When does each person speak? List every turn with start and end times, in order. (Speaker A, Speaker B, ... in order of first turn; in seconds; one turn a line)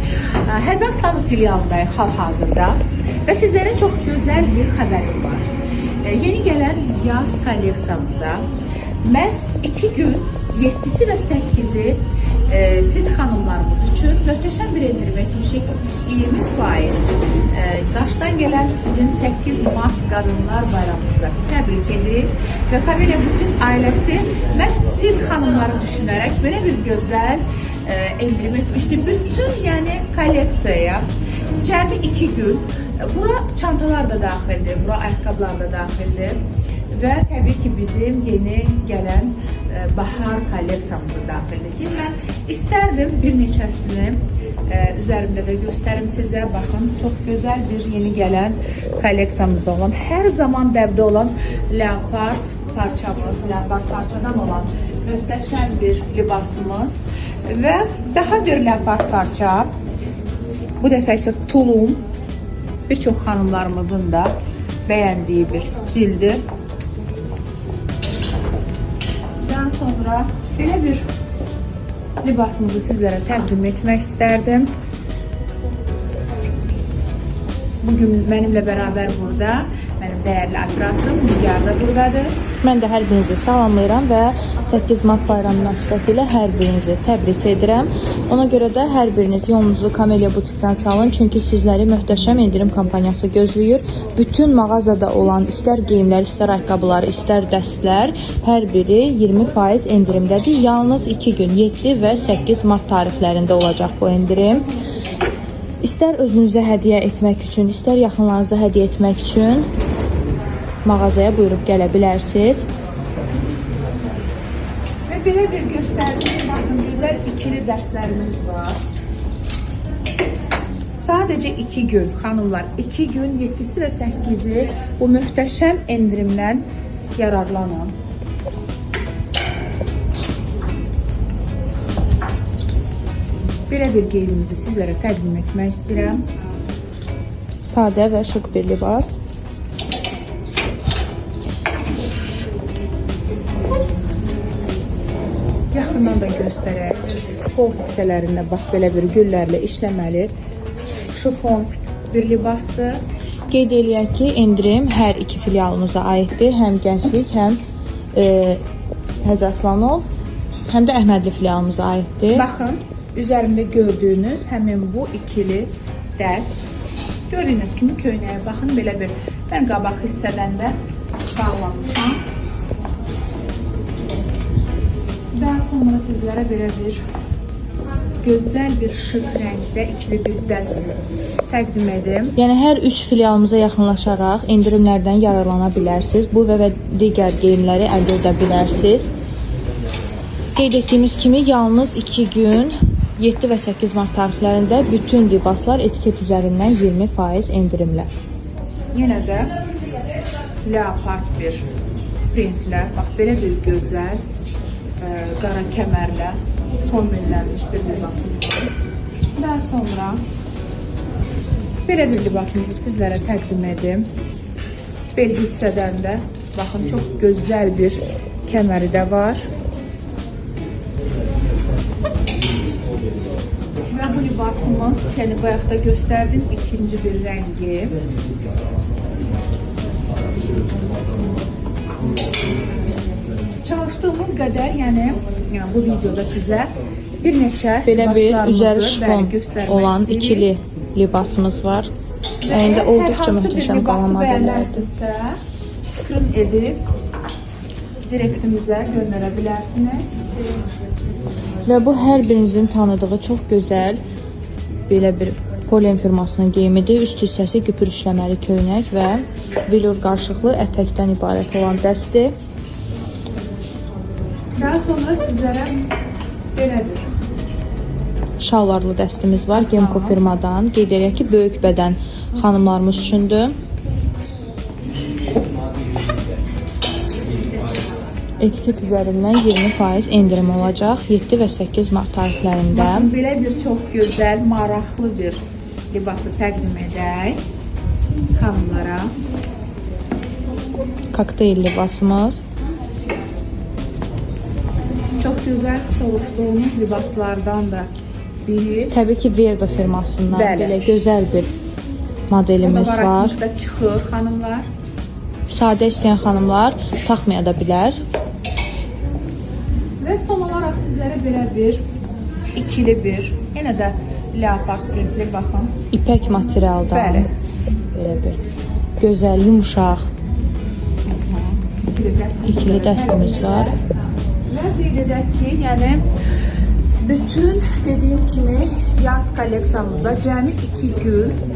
Speaker A: 0.5-8.5
Speaker A: 9.0-31.1
Speaker A: 31.6-36.4
Speaker A: 36.9-59.7
Speaker A: 60.8-62.0
Speaker A: 62.9-64.3
Speaker A: 64.9-66.4
Speaker A: 69.4-71.0
Speaker A: 72.2-74.7
Speaker A: 77.8-82.3
Speaker B: 82.6-104.7
Speaker B: 105.8-109.7
Speaker B: 110.8-112.7
Speaker A: 115.1-118.8
Speaker A: 120.9-126.7
Speaker A: 127.2-128.0
Speaker A: 133.7-136.2
Speaker B: 137.6-139.1
Speaker A: 145.7-147.0
Speaker A: 147.5-150.3
Speaker A: 151.1-153.0
Speaker B: 153.5-157.6
Speaker B: 158.2-158.6
Speaker B: 159.2-160.1
Speaker B: 160.7-162.4
Speaker A: 162.3-166.6
Speaker A: 167.3-170.8
Speaker A: 171.3-172.2
Speaker A: 175.3-177.0
Speaker A: 178.2-180.9
Speaker A: 181.5-182.3
Speaker B: 182.4-189.1
Speaker B: 190.6-198.1
Speaker A: 198.9-199.5
Speaker A: 200.6-201.7
Speaker A: 202.3-204.2
Speaker A: 205.0-208.7
Speaker A: 209.4-210.2
Speaker A: 211.9-214.1
Speaker A: 215.2-219.5
Speaker A: 223.9-227.9
Speaker A: 233.6-240.5
Speaker B: 237.8-241.9
Speaker A: 242.4-246.8
Speaker B: 242.5-244.9
Speaker A: 248.0-250.1
Speaker B: 251.7-254.0
Speaker B: 254.9-262.4
Speaker A: 264.6-265.8
Speaker A: 266.6-267.1
Speaker B: 268.4-273.6
Speaker A: 269.5-270.2
Speaker B: 278.4-283.1
Speaker A: 282.7-285.4
Speaker A: 285.9-287.4
Speaker A: 288.4-289.1
Speaker B: 291.1-292.4
Speaker A: 295.2-297.9
Speaker A: 298.5-298.9
Speaker B: 298.9-301.5
Speaker A: 300.3-300.8
Speaker B: 302.3-303.4
Speaker A: 302.6-304.7
Speaker B: 305.5-308.0
Speaker A: 310.0-311.8
Speaker A: 312.6-315.7
Speaker B: 315.9-317.3
Speaker A: 316.9-317.3
Speaker B: 317.9-318.4
Speaker B: 319.0-320.1
Speaker A: 321.1-323.8
Speaker B: 322.5-323.7
Speaker A: 324.5-326.0
Speaker A: 327.0-331.4